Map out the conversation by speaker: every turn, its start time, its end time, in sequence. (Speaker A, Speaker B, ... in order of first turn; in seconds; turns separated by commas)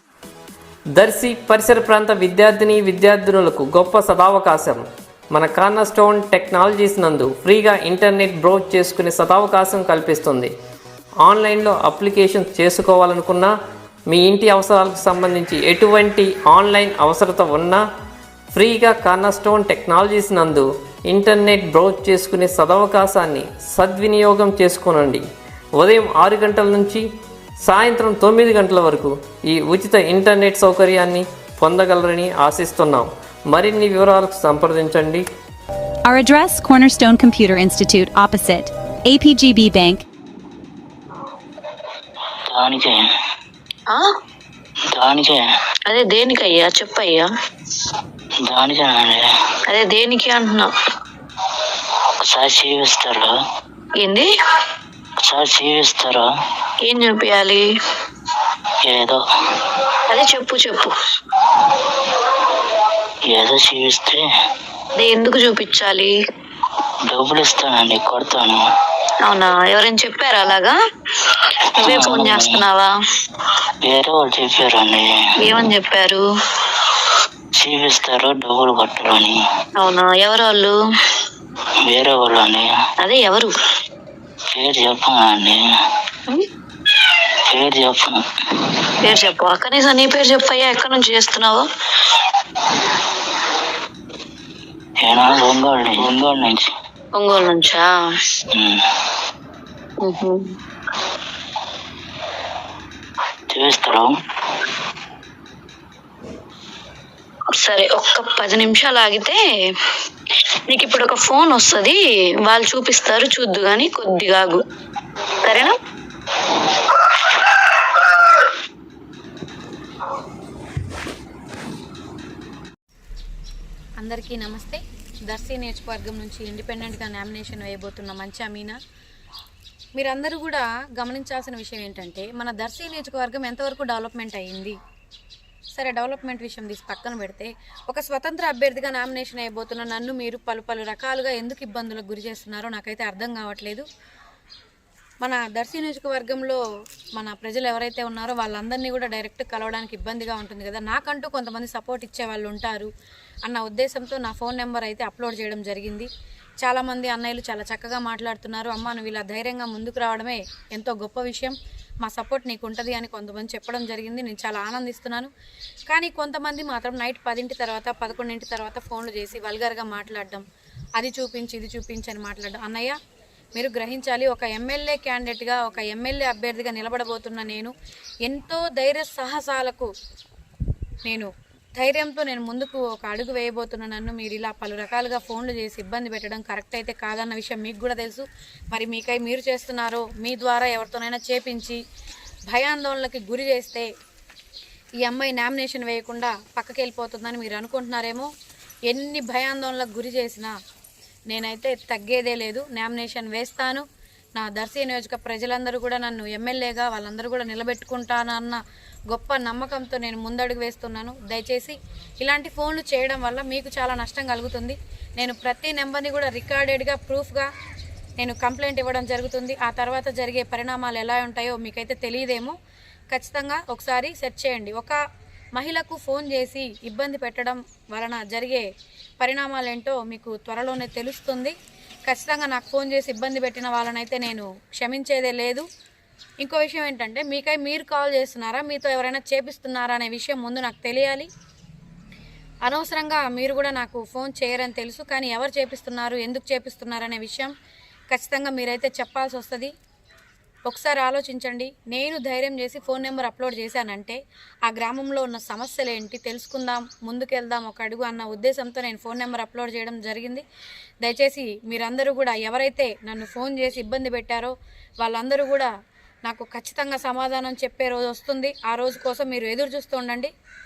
Speaker A: 0.9-4.8, Speaker A: 5.3-10.5, Speaker A: 11.2-13.5, Speaker A: 14.1-17.8, Speaker A: 18.5-25.2, Speaker A: 25.8-27.0, Speaker A: 27.6-35.2, Speaker B: 36.1-40.0, Speaker C: 42.5-43.0, Speaker C: 44.9-45.5, Speaker D: 45.9-47.3, Speaker C: 48.5-49.3, Speaker D: 49.7-50.7, Speaker C: 52.2-53.3, Speaker D: 54.0-54.3, Speaker C: 55.2-56.2, Speaker D: 56.8-57.6, Speaker C: 58.9-59.2, Speaker D: 60.1-60.9, Speaker C: 63.3-64.2, Speaker D: 65.0-66.1, Speaker C: 67.1-68.6, Speaker D: 69.2-70.8, Speaker D: 71.3-72.9, Speaker C: 71.8-72.6, Speaker C: 73.8-75.2, Speaker D: 75.4-76.2, Speaker C: 77.6-79.4, Speaker D: 79.8-80.8, Speaker C: 81.8-82.7, Speaker D: 83.0-83.5, Speaker C: 84.5-85.6, Speaker C: 87.5-88.2, Speaker D: 89.0-91.7, Speaker C: 95.0-96.7, Speaker D: 97.2-97.9, Speaker C: 98.5-98.8, Speaker D: 100.0-100.4, Speaker C: 103.5-104.1, Speaker D: 107.5-109.4, Speaker D: 110.7-114.6, Speaker D: 115.4-115.8, Speaker E: 124.0-128.8, Speaker E: 130.0-134.8, Speaker E: 135.8-143.8, Speaker E: 145.2-146.6, Speaker E: 147.2-152.9, Speaker E: 153.4-156.1, Speaker E: 156.6-165.3, Speaker E: 165.9-170.4, Speaker E: 171.0-173.0, Speaker E: 173.6-177.7, Speaker E: 178.2-179.9, Speaker E: 181.1-191.8, Speaker E: 192.5-193.9, Speaker E: 195.0-198.3, Speaker E: 198.9-200.5, Speaker E: 201.3-203.8, Speaker E: 204.4-208.6, Speaker E: 209.1-217.5, Speaker E: 218.2-222.5, Speaker E: 223.1-225.0, Speaker E: 225.6-228.7, Speaker E: 229.2-231.6, Speaker E: 232.1-235.7, Speaker E: 236.4-241.3, Speaker E: 242.7-247.5, Speaker E: 248.1-249.7, Speaker E: 250.7-260.4, Speaker E: 261.0-265.7, Speaker E: 266.2-270.3